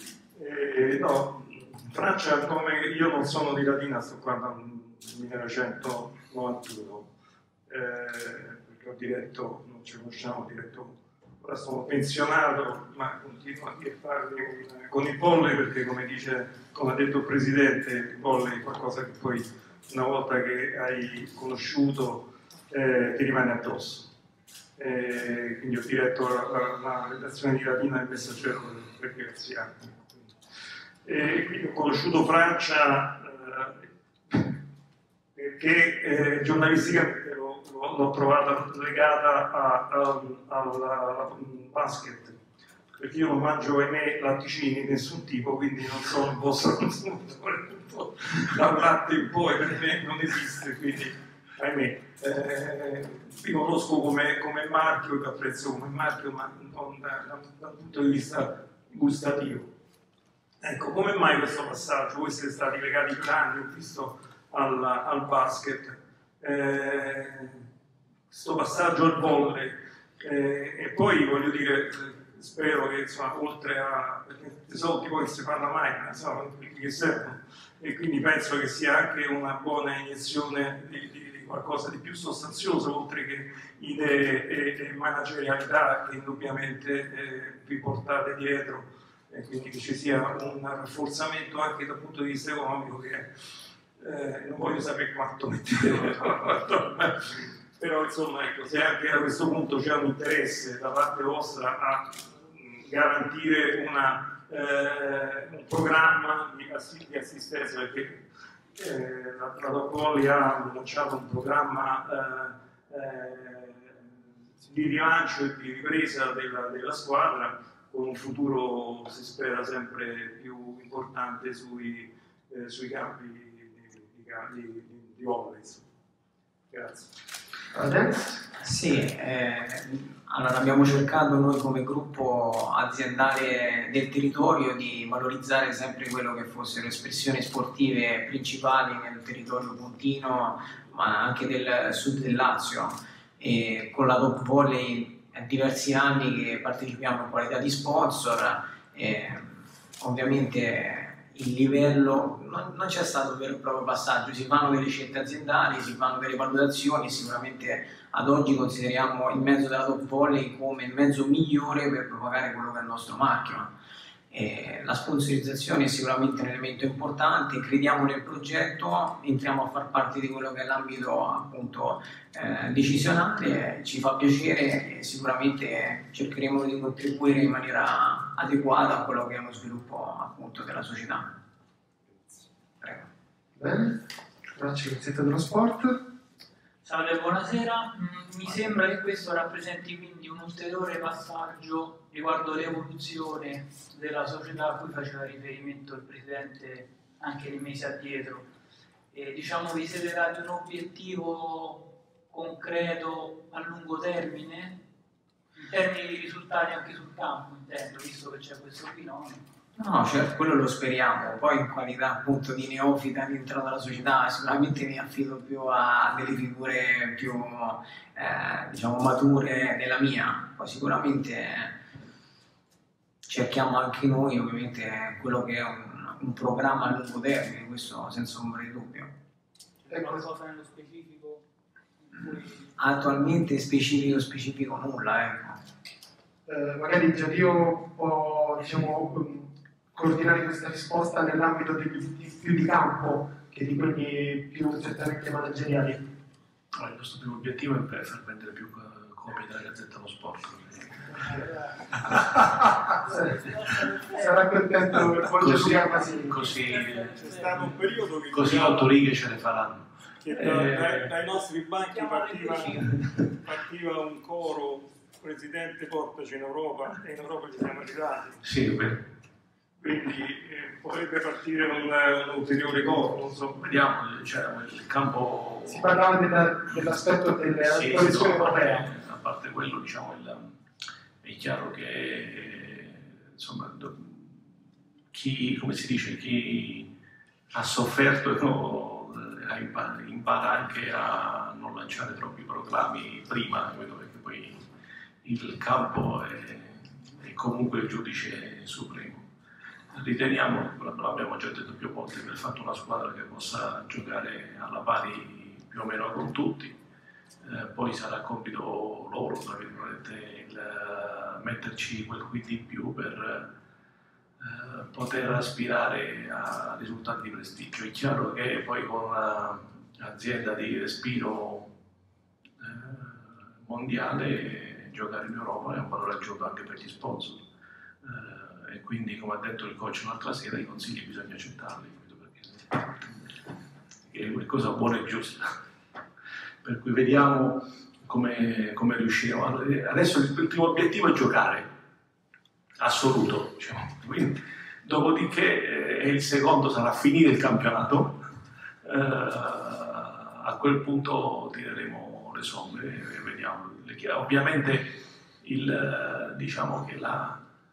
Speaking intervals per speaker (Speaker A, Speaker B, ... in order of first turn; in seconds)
Speaker A: 0.3-7.1, 7.7-24.1, 24.8-30.3, 31.0-34.5, 35.3-42.4, 43.0-59.7, 60.6-67.6, 68.3-93.3, 94.0-114.0, 114.6-125.9, 126.7-127.1, 257.1-258.9, 260.2-268.4, 269.8-273.6
Speaker B: 127.7-128.4, 183.6-184.0, 184.6-186.0, 229.9-230.2, 236.5-246.0, 253.1-253.4, 254.1-256.5, 275.7-278.9
Speaker C: 128.6-163.7, 164.3-181.3, 182.8-183.1, 209.8-221.8, 223.2-229.1, 232.8-235.6
Speaker D: 186.8-198.5, 199.1-204.8, 205.6-209.4, 229.9-231.4, 232.1-232.7, 251.2-251.5, 253.1-254.5, 256.2-257.6, 261.9-262.9
Speaker E: 246.7-250.9, 255.4-257.6, 258.3-261.1, 268.4-269.1, 273.6-275.9, 277.6-280.5, 281.2-284.4, 285.1-286.9, 287.5-294.6, 295.2-299.3, 299.9-306.8, 307.4-313.5, 314.4-321.7, 322.6-327.4, 328.0-333.3, 334.1-335.6, 336.6-341.7, 342.8-348.2, 348.8-357.4